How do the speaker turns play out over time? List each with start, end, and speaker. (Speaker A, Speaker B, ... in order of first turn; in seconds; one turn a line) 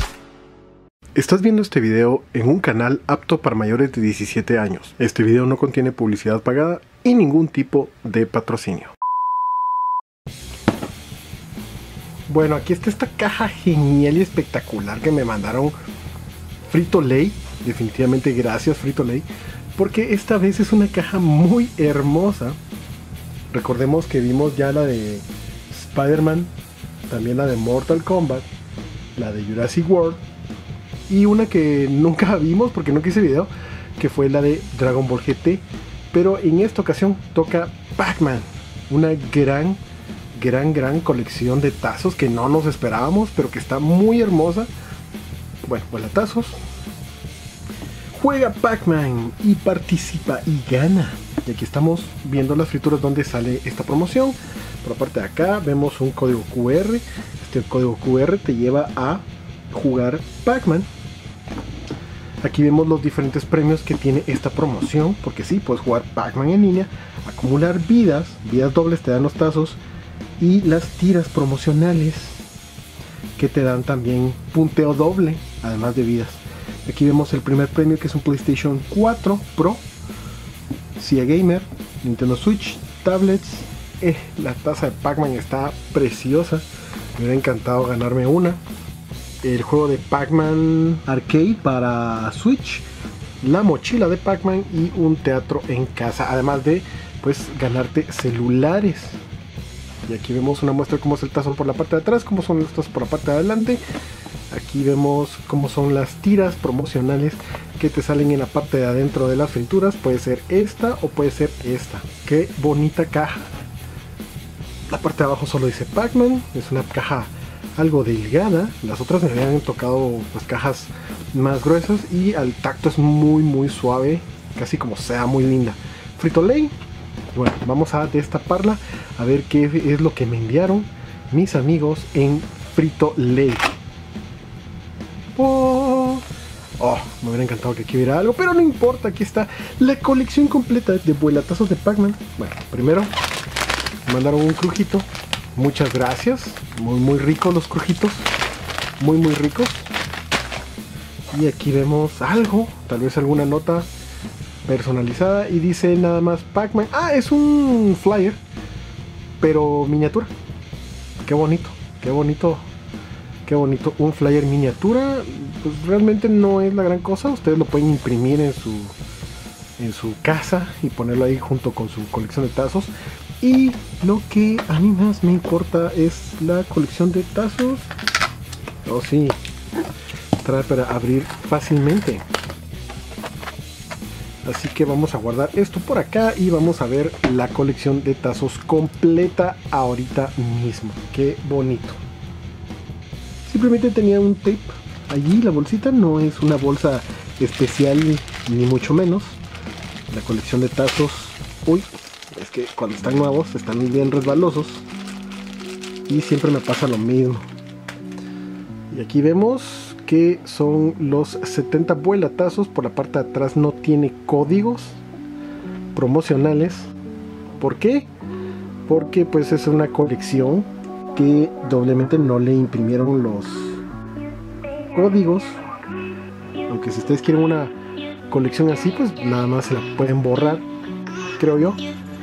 Speaker A: 1.2-8.9
Speaker A: 12.3-15.8
Speaker A: 16.7-22.6
Speaker A: 23.5-26.5
Speaker A: 27.1-28.5
Speaker A: 29.1-30.2
Speaker A: 31.1-39.8
Speaker A: 40.3-44.7
Speaker A: 45.6-46.6
Speaker A: 48.1-60.9
Speaker A: 62.4-69.8
Speaker A: 70.4-72.5
Speaker A: 73.4-79.8
Speaker A: 81.0-88.6
Speaker A: 89.4-92.9
Speaker A: 93.4-99.2
Speaker A: 100.1-103.8
Speaker A: 104.5-113.5
Speaker A: 114.9-126.7
Speaker A: 127.3-133.8
Speaker A: 135.3-136.2
Speaker A: 136.8-143.1
Speaker A: 144.1-148.3
Speaker A: 149.0-149.9
Speaker A: 151.3-153.9
Speaker A: 154.7-158.4
Speaker A: 159.4-160.3
Speaker A: 161.2-162.7
Speaker A: 163.4-168.9
Speaker A: 169.8-177.9
Speaker A: 178.8-179.4
Speaker A: 180.4-182.2
Speaker A: 184.4-192.0
Speaker A: 193.4-199.4
Speaker A: 200.1-204.9
Speaker A: 206.1-207.5
Speaker A: 208.9-215.0
Speaker A: 215.9-216.9
Speaker A: 217.6-218.1
Speaker A: 218.9-223.8
Speaker A: 224.9-225.6
Speaker A: 226.7-227.7
Speaker A: 228.3-230.7
Speaker A: 231.4-231.8